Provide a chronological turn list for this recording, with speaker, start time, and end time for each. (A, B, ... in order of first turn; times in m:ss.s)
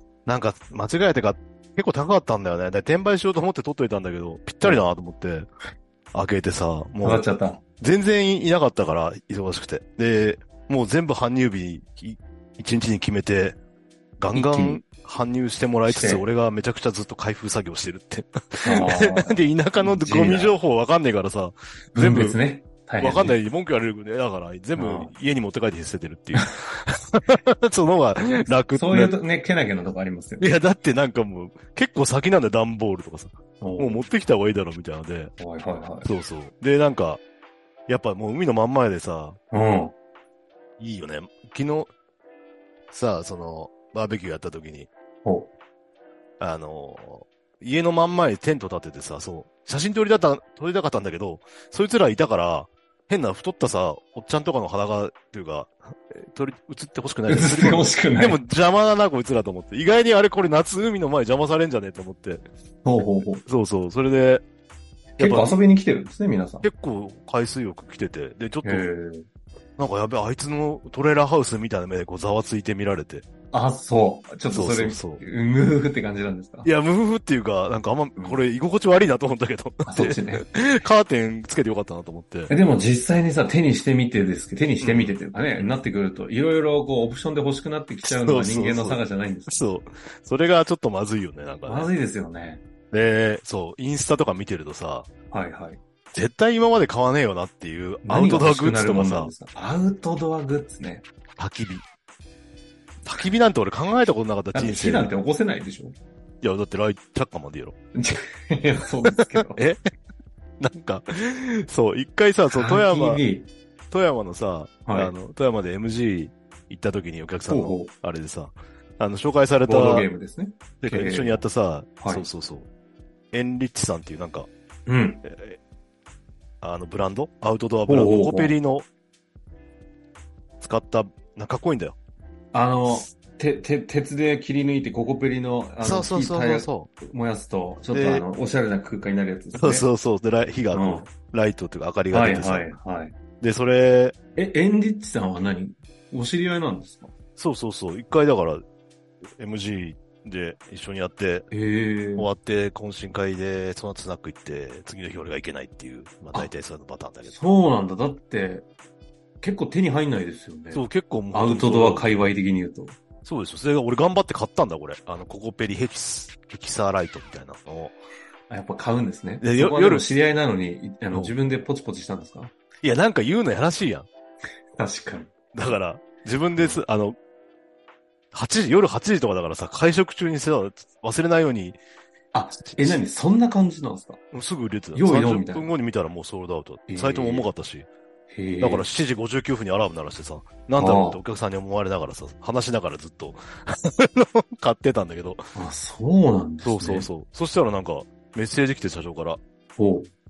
0:00.2-0:05.5 A
0:06.1-0:07.3 A
0:07.0-0:07.6 B
0:07.8-0:13.6 A
0:14.2-0:22.4 A
0:14.3-0:14.8 B
0:15.9-0:16.2 B
0:18.6-0:20.5 B
0:21.9-0:23.4 B
0:23.0-0:29.1 A
0:24.8-0:25.1 B
0:28.7-0:30.5 B
0:30.4-0:35.3 A
0:33.6-0:34.0 B
0:35.4-0:36.1 B
0:36.0-0:37.2 A
0:37.9-0:39.4 A
0:39.5-0:39.9 B
0:40.8-0:41.9 A
0:42.9-0:44.9 A
0:45.2-0:45.5 B
0:46.4-1:02.4 A
0:57.3-0:58.4 B
1:02.8-1:03.4 B
1:03.4-1:04.4 A
1:05.2-1:06.7 B
1:05.2-1:05.6 A
1:06.6-1:08.8 A
1:08.6-1:09.2 B
1:09.8-1:13.2 A
1:13.5-1:16.7 B
1:14.5-1:15.2 A
1:16.6-1:22.5 A
1:19.8-1:20.4 B
1:22.5-1:29.6 B
1:24.8-1:25.7 A
1:28.0-1:31.9 A
1:31.6-1:32.6 B
1:32.9-1:35.1 A
1:35.3-1:35.8 B
1:36.1-1:39.3 A
1:38.0-1:41.0 B
1:41.4-1:41.8 A
1:43.0-1:45.1 A
1:44.5-1:45.9 B
1:46.4-1:47.8 A
1:47.9-1:49.6 B
1:49.5-1:49.9 A
1:50.6-1:53.2 A
1:52.5-1:53.5 B
1:53.9-2:00.1 A
1:54.8-1:55.1 B
1:57.5-1:57.9 B
1:59.6-2:01.4 B
2:00.8-2:02.7 A
2:03.3-2:04.5 A
2:04.9-2:05.2 B
2:05.2-2:05.6 A
2:06.6-2:08.9 A
2:07.9-2:08.5 B
2:10.6-2:12.0 A
2:12.5-2:19.8 B
2:15.8-2:16.9 A
2:17.9-2:18.2 A
2:19.6-2:22.8 A
2:20.7-2:21.1 B
2:22.1-2:23.2 B
2:23.4-2:24.1 A
2:24.4-2:27.1 B
2:27.4-2:28.6 A
2:29.4-2:31.5 A
2:31.5-2:32.3 B
2:32.2-2:37.3 A
2:37.2-2:38.6 B
2:39.4-2:43.0 B
2:40.7-2:42.1 A
2:43.2-2:48.0 A
2:48.5-2:52.5 B
2:49.4-2:50.1 A
2:52.8-2:54.1 A
2:54.8-2:55.3 B
2:55.5-2:57.2 A
2:56.6-2:56.8 B
2:58.3-3:01.8 A
3:02.3-3:04.2 B
3:02.6-3:03.0 A
3:04.3-3:07.9 A
3:04.9-3:05.7 B
3:06.9-3:07.5 B
3:08.3-3:08.8 B
3:08.6-3:15.4 A
3:10.8-3:11.2 B
3:15.6-3:17.1 B
3:16.6-3:19.4 A
3:19.8-3:20.1 B